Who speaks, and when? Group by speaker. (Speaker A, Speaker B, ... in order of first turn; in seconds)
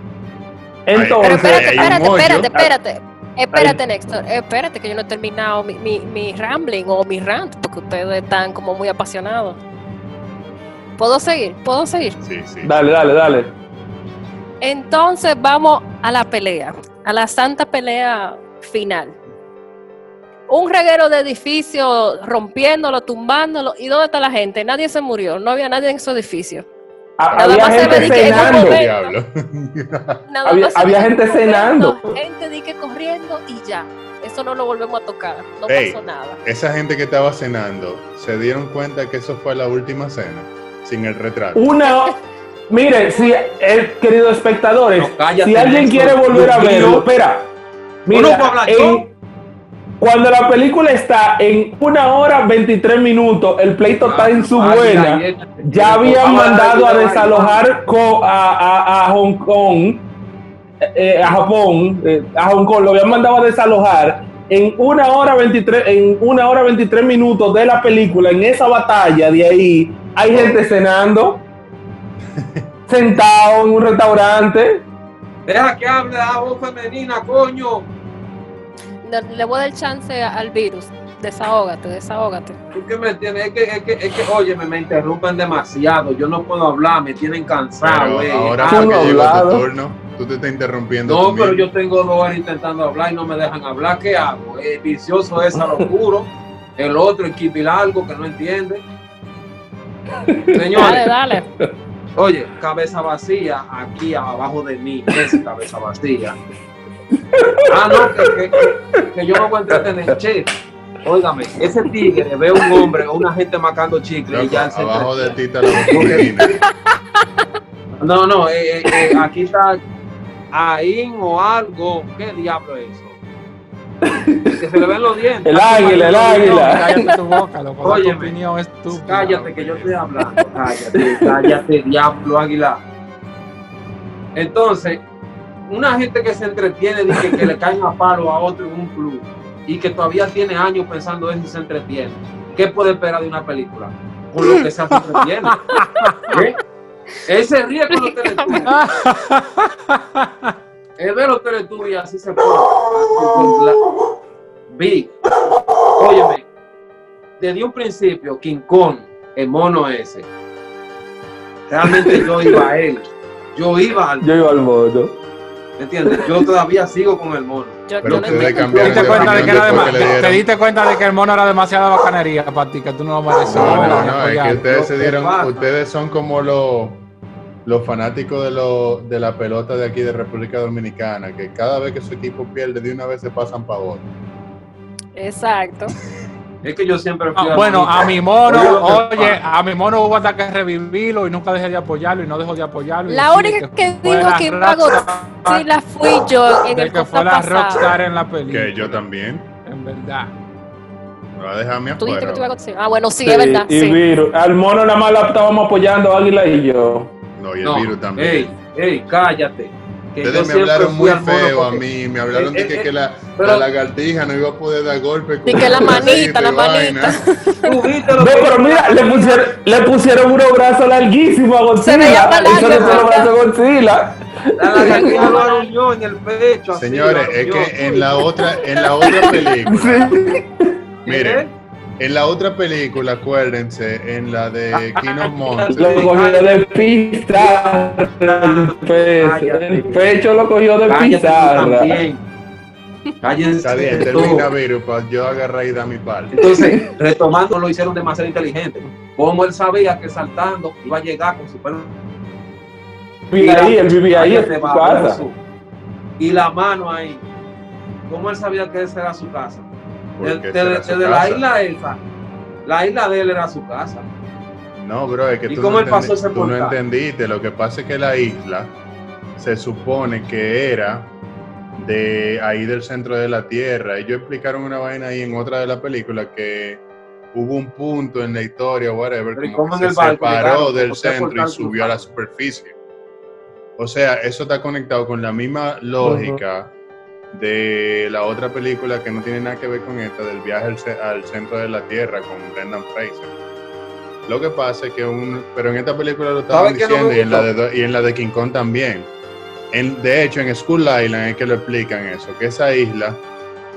Speaker A: 0.9-2.7, 12.6-13.5, 27.2-28.8, 30.5-32.1, 41.5-42.2, 42.7-47.5, 48.1-49.1, 50.0-60.1, 60.8-71.4, 72.9-74.8, 88.7-89.7, 95.5-95.8, 100.2-101.7, 107.3-108.7, 112.0-113.0, 115.8-116.3, 124.0-124.6, 125.5-127.0, 131.0-131.6, 161.8-162.6, 164.2-165.2, 203.2-207.1, 215.6-216.0, 218.2-225.3, 229.0-230.7, 235.7-242.0, 243.9-244.4, 246.4-246.9, 253.3-255.2, 286.0-286.4
Speaker B: 0.9-2.5, 12.2-12.7, 27.8-30.2, 35.7-41.6, 72.3-72.7, 87.8-91.7, 114.3-116.6, 168.0-170.4, 173.5-177.1, 177.7-184.1, 188.8-189.4, 198.5-199.5, 201.3-202.5, 207.4-208.5, 210.2-217.2, 226.7-230.2, 231.1-231.4, 232.0-236.1, 243.6-246.3, 260.2-261.4, 264.8-268.8, 269.4-271.1, 271.8-276.8, 277.3-282.8, 283.8-286.7, 287.3-293.3, 294.3-299.1, 299.7-303.2
Speaker C: 1.2-9.6, 11.0-12.2, 14.6-19.2, 20.5-26.6, 27.3-29.1, 30.3-36.4, 43.1-43.5, 79.0-82.6, 100.8-101.5, 145.8-146.4, 147.9-148.7, 167.9-169.2, 185.2-185.9, 193.1-197.9, 202.0-204.0, 215.5-217.8, 221.8-223.3, 224.8-225.7
Speaker D: 45.0-47.1, 48.1-49.0, 54.0-57.9, 70.3-70.6, 75.5-77.9, 82.7-89.2, 91.1-98.8, 100.5-101.1, 102.2-106.4, 107.7-110.5, 111.0-116.3, 118.0-119.8, 120.5-123.2, 124.5-126.1, 127.8-128.3, 128.9-132.8, 134.3-135.0, 135.7-145.7, 146.3-146.6, 147.3-148.7, 151.0-153.9, 154.7-155.3, 156.0-156.4, 157.4-160.3, 161.7-164.3, 165.8-170.2, 173.5-175.7, 186.6-189.3, 207.6-213.7, 217.6-219.5, 222.2-223.2, 224.6-228.3, 231.1-231.5, 234.9-236.7, 237.3-240.1, 240.9-242.2, 243.2-244.5, 246.3-251.9, 253.3-255.4, 256.2-257.2, 258.1-259.7, 260.2-262.0, 262.6-264.1, 265.5-266.8, 279.4-282.0, 296.5-297.5
Speaker E: 125.5-130.0, 145.7-146.3, 148.7-150.5, 168.8-174.6, 187.4-195.6, 196.7-199.0, 199.7-200.3